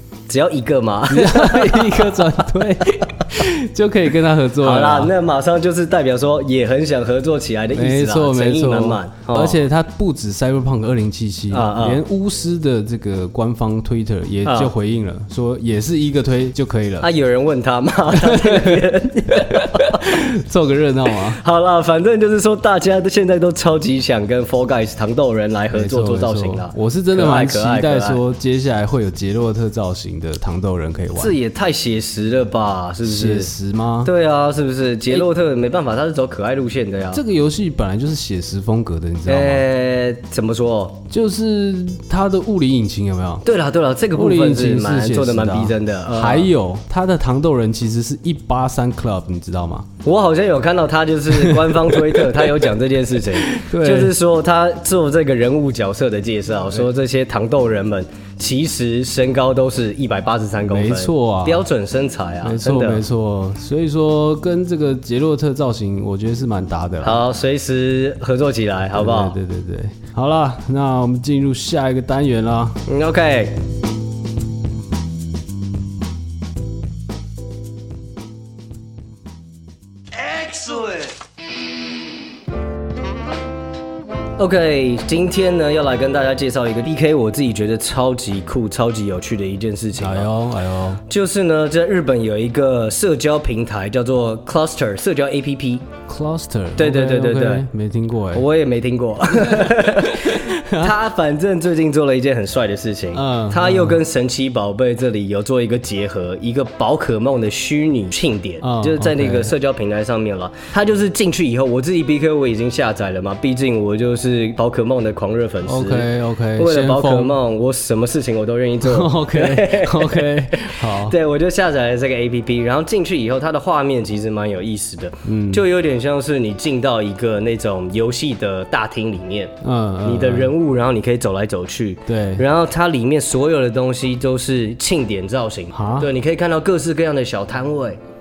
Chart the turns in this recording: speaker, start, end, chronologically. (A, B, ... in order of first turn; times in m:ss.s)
0:00.3-0:02.3 A
0:01.1-0:05.1 B
0:04.6-0:09.6 A
0:07.7-0:17.1 B
0:11.5-0:12.0 A
0:14.4-0:14.7 A
0:17.0-0:20.1 A
0:18.1-0:21.4 B
0:21.3-0:28.2 A
0:25.7-0:31.4 B
0:31.2-0:33.5 A
0:33.0-0:34.1 B
0:34.0-0:37.2 A
0:37.1-0:39.6 B
0:39.3-0:41.0 A
0:41.1-0:43.4 B
0:43.4-0:46.5 A
0:44.1-0:49.9 B
0:50.0-1:03.0 A
0:51.3-0:52.6 B
0:53.3-0:54.2 B
1:00.7-1:01.7 B
1:02.4-1:07.2 B
1:07.0-1:09.3 A
1:08.9-1:12.8 B
1:12.9-1:13.5 A
1:20.3-1:21.1 A
1:24.4-1:30.3 A
1:30.0-1:31.0 B
1:31.1-1:35.8 A
1:36.1-1:38.4 B
1:36.8-1:37.7 A
1:38.3-2:18.0 A
1:39.3-1:40.9 B
1:43.1-1:44.0 B
1:48.6-1:49.5 B
1:55.6-1:57.3 B
1:58.8-2:01.2 B
2:05.2-2:05.6 B
2:09.6-2:10.5 B
2:12.1-2:12.4 B
2:15.7-2:16.1 B